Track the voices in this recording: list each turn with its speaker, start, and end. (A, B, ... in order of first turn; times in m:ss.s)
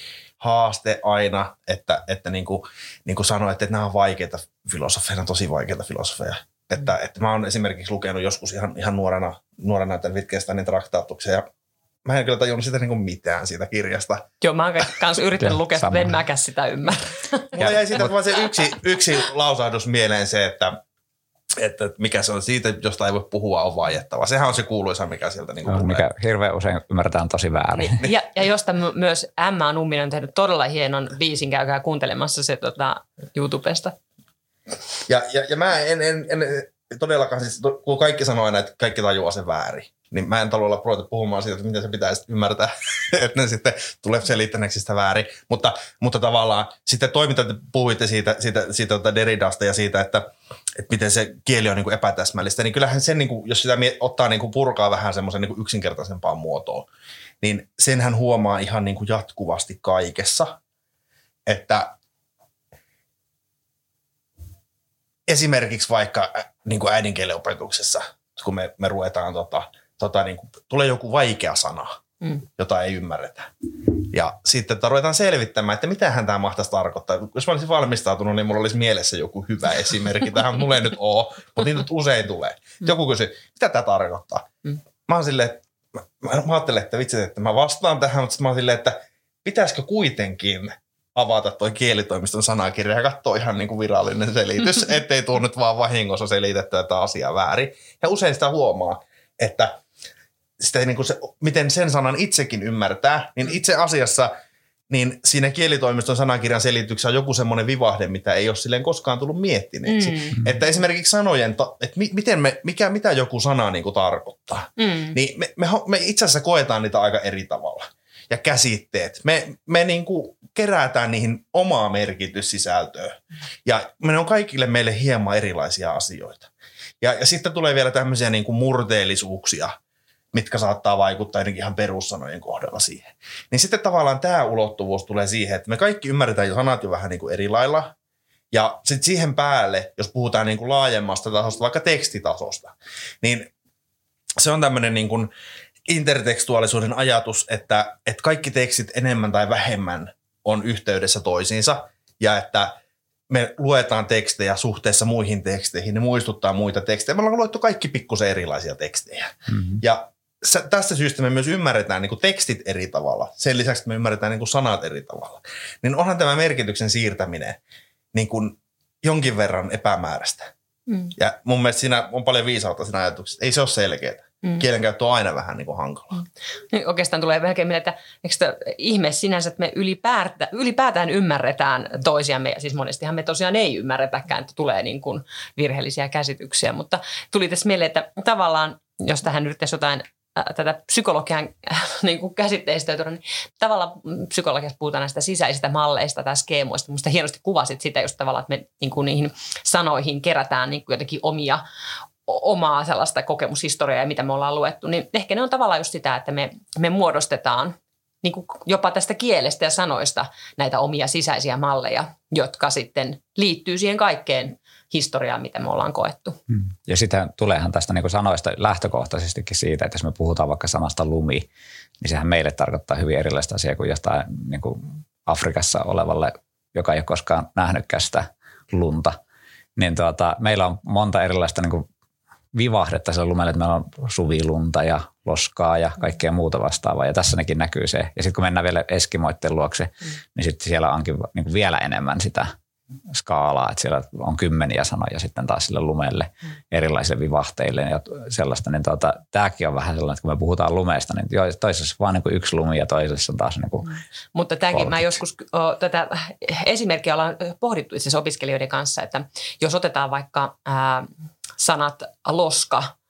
0:00.4-0:11.5 A
0:12.0-0:14.3 A
0:14.4-0:17.5 B
0:15.4-0:16.1 C
0:17.5-0:20.8 A
0:17.6-0:18.1 C
0:21.6-0:26.0 A
0:25.7-0:28.0 C
0:27.8-0:34.0 B
0:35.1-0:56.9 A
0:57.4-1:00.6 A
1:01.5-1:02.0 A
1:05.3-1:12.0 A
1:12.6-1:24.5 A
1:25.1-1:25.6 A
1:26.2-1:39.8 A
1:40.6-1:44.3 A
1:44.9-2:06.5 A
1:49.9-1:50.5 B
1:54.8-1:55.2 B
2:07.0-2:09.8 A
2:10.3-2:17.9 A
2:18.5-2:23.5 A
2:24.4-2:25.3 A
2:25.9-2:32.8 A
2:33.3-2:47.6 A
2:48.1-2:50.5 A
2:51.2-2:56.2 A
2:56.7-3:21.6 B
3:22.3-3:36.4 B
3:36.5-3:41.5 C
3:42.0-3:49.2 C
3:49.8-3:51.9 C
3:52.5-4:02.5 C
4:03.1-4:13.9 C
4:14.3-4:22.9 B
4:14.7-4:15.2 C